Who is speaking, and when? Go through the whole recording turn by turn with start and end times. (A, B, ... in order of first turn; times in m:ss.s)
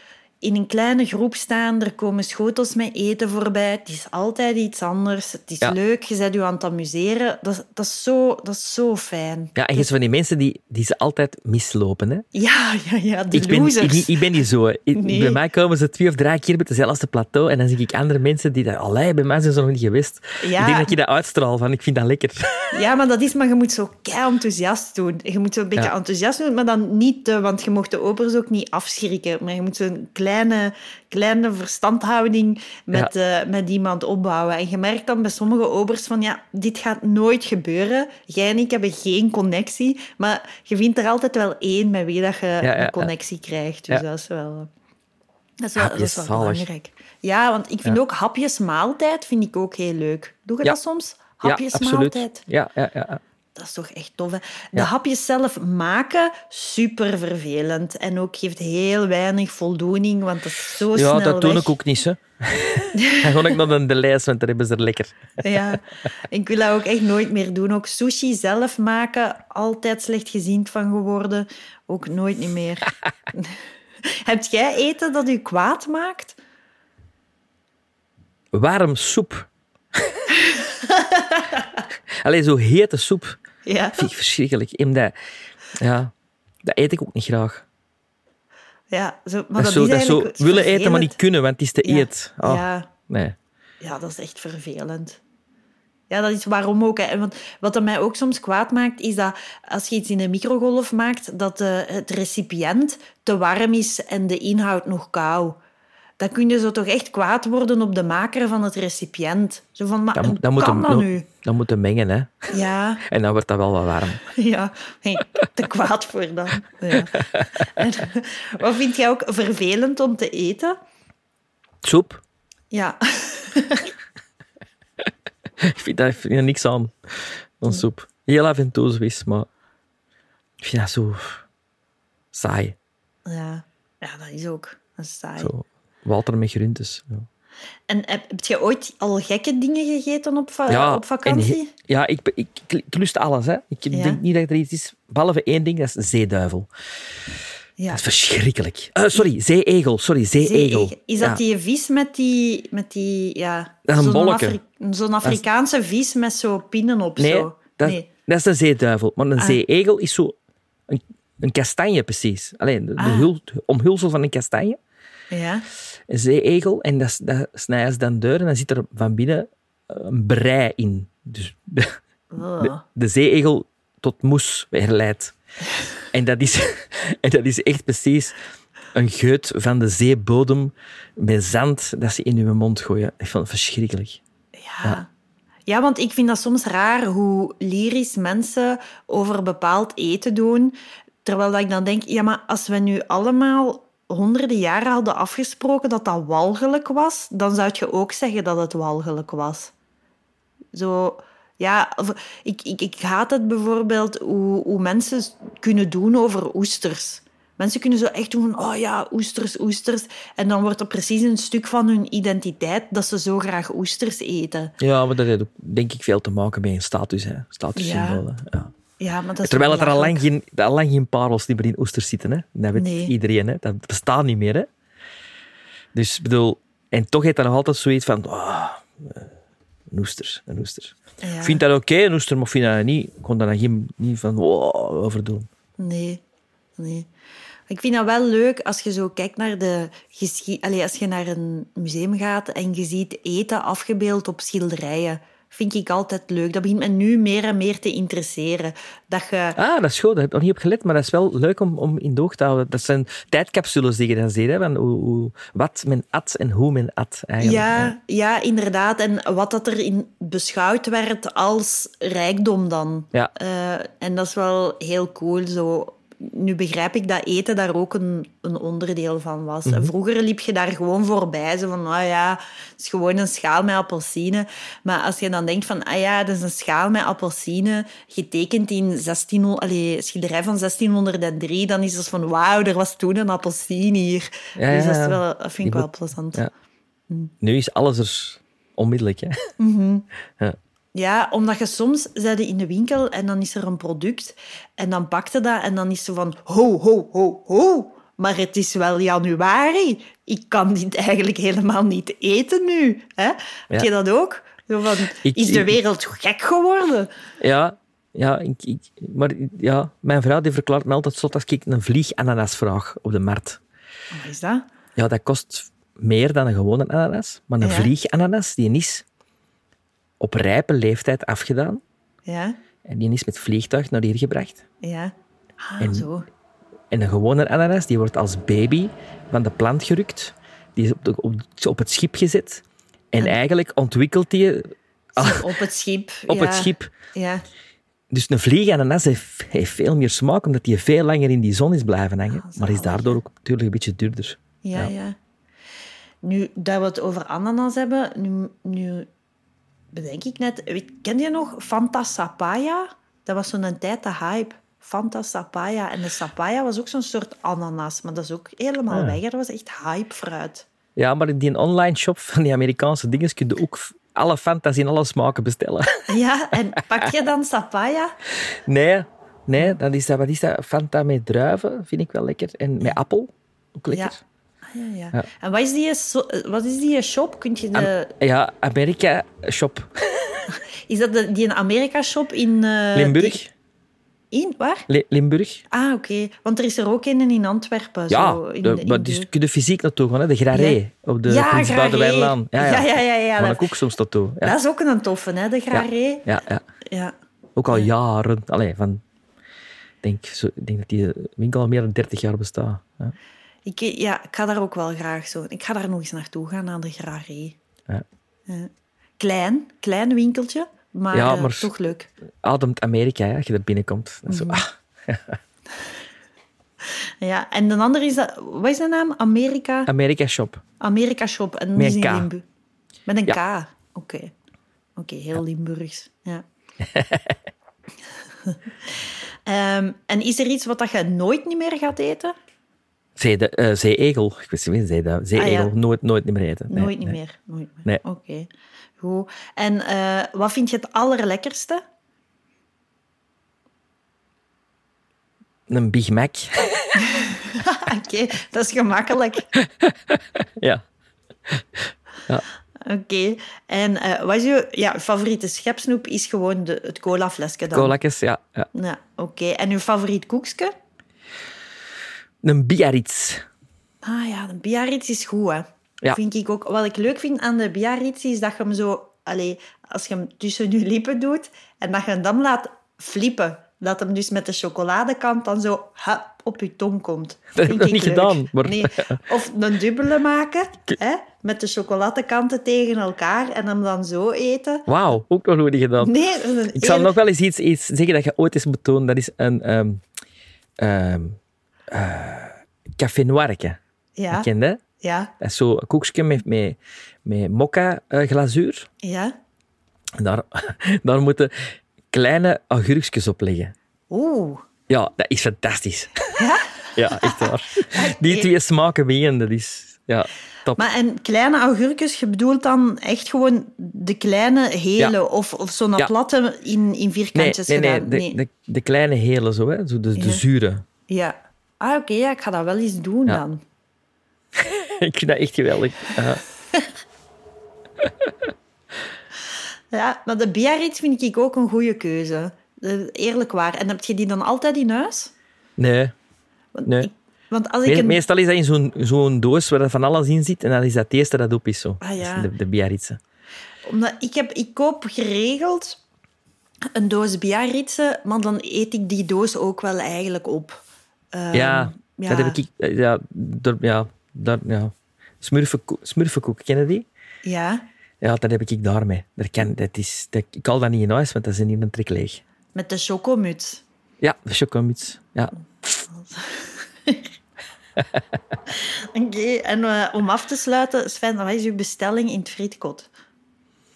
0:00.4-0:09.9 A
0:09.6-0:12.2 B
0:12.3-0:15.4 A
0:13.3-0:22.7 B
0:20.4-0:20.9 A
0:22.7-0:44.7 A
0:42.6-0:43.1 B
0:45.6-0:52.4 A
0:45.8-0:46.6 B
0:51.4-0:53.2 B
0:53.6-1:01.7 A
1:00.9-1:05.5 B
1:02.9-1:03.6 A
1:05.4-1:16.4 A
1:18.5-1:20.2 B
1:20.3-1:21.8 A
1:22.2-1:23.4 B
1:23.6-1:24.1 A
1:24.0-1:25.2 B
1:25.7-1:27.6 B
1:28.9-1:31.2 A
1:29.6-1:33.4 B
1:31.8-1:32.9 A
1:33.8-1:35.2 A
1:36.1-1:45.6 A
1:46.2-1:51.3 A
1:50.1-1:52.5 B
1:52.5-1:53.0 A
1:53.0-1:54.2 B
1:54.3-2:00.8 A
1:56.9-1:57.7 B
2:01.8-2:02.2 B
2:02.7-2:03.9 A
2:05.6-2:09.5 B
2:10.6-2:11.4 B
2:12.3-2:12.8 B
2:13.2-2:15.5 A
2:15.4-2:17.3 B
2:17.9-2:21.7 A
2:20.7-2:26.7 B
2:23.9-2:24.2 A
2:27.9-2:31.4 B
2:30.4-2:38.1 A
2:33.9-2:34.6 B
2:37.2-2:40.3 B
2:40.9-2:44.8 B
2:43.0-2:43.3 A
2:45.3-2:45.6 A
2:46.1-2:52.0 B
2:52.3-2:52.8 A
2:52.6-2:55.3 B
2:56.1-2:58.3 B
2:58.9-3:04.2 B
3:04.6-3:05.1 A
3:05.7-3:19.7 A
3:20.7-3:34.7 A
3:34.8-3:38.7 B
3:37.7-3:38.2 A
3:39.0-3:40.2 A
3:39.4-3:44.7 B
3:42.7-3:43.1 A
3:45.9-3:49.3 B
3:49.9-3:55.5 B
3:51.2-3:51.6 A
3:55.8-3:56.2 A
3:56.8-3:57.1 A
3:57.7-4:09.6 A
4:09.6-4:17.9 B
4:17.4-4:46.4 A
4:29.6-4:29.9 B
4:44.6-4:46.5 B
4:47.4-4:49.4 B
4:49.6-4:50.0 A
4:50.9-5:07.1 A
5:05.2-5:05.7 B
5:07.4-5:13.6 B
5:14.1-5:14.6 A
5:15.0-5:19.0 B
5:17.6-5:17.9 A
5:20.2-5:21.8 B
5:22.2-5:22.6 A
5:22.8-5:24.6 B
5:24.8-5:26.3 A
5:25.8-5:26.1 B
5:26.9-5:35.5 B
5:35.2-5:37.4 A
5:36.3-5:36.9 B
5:38.1-5:44.9 B
5:42.3-5:43.2 A
5:44.6-5:45.2 A
5:46.2-5:49.1 A
5:49.9-6:00.6 A
5:58.9-5:59.2 B
6:01.0-6:06.1 B
6:06.1-6:08.1 A
6:08.4-6:14.2 B
6:13.9-6:14.1 A
6:14.7-6:18.1 A
6:17.7-6:20.4 B
6:20.5-6:23.4 A
6:22.9-6:23.5 B
6:24.3-6:24.9 A
6:24.9-6:25.6 B
6:25.7-6:29.3 A
6:28.1-6:34.6 B
6:30.5-6:33.7 A
6:34.4-6:36.3 A
6:35.7-6:36.6 B
6:36.9-6:37.1 A
6:37.6-6:39.0 B
6:40.0-6:43.1 B
6:43.6-6:47.6 A
6:48.5-6:52.1 A
6:51.1-6:51.7 B
6:52.4-6:55.4 B
6:54.3-6:54.6 A
6:57.2-6:59.9 A
6:59.9-7:00.6 B
7:00.8-7:02.4 A
7:01.7-7:02.3 B
7:03.1-7:04.3 A
7:05.0-7:06.4 A
7:06.8-7:07.4 B
7:08.4-7:12.3 A
7:13.2-7:17.2 B
7:15.4-7:15.7 A
7:16.7-7:21.8 A
7:25.7-7:26.9 B
7:26.9-7:29.5 A
7:29.6-7:30.8 B
7:31.5-7:32.4 B
7:32.8-7:37.9 A
7:37.7-7:38.7 B
7:38.7-7:40.7 A
7:42.4-7:43.4 B
7:44.0-8:04.9 A
7:57.6-7:59.2 B
8:04.9-8:06.1 B
8:06.0-8:07.2 A
8:06.7-8:10.0 B
8:10.8-8:11.4 B
8:11.9-8:13.8 B
8:14.2-8:14.5 A
8:14.3-8:14.8 B
8:15.0-8:15.3 A
8:15.4-8:18.9 B
8:19.0-8:19.3 A
8:20.2-8:23.7 B
8:24.1-8:24.6 A
8:24.9-8:26.2 B
8:26.4-8:28.5 A
8:27.0-8:30.8 B
8:30.8-8:38.4 A
8:37.3-8:40.8 B
8:40.2-8:40.4 A
8:41.1-8:43.6 A
8:44.5-8:46.4 B
8:48.0-8:48.5 B
8:49.9-8:55.3 A
8:55.8-8:56.1 B
8:56.7-8:58.2 A
8:57.8-9:03.2 B
9:02.0-9:02.5 A
9:03.8-9:06.0 A
9:06.9-9:10.8 A
9:11.3-9:12.6 A
9:11.5-9:17.0 B
9:17.4-9:17.8 A
9:18.2-9:22.4 B
9:22.7-9:23.8 A
9:24.2-9:25.5 B
9:26.1-9:27.3 A
9:28.7-9:33.1 A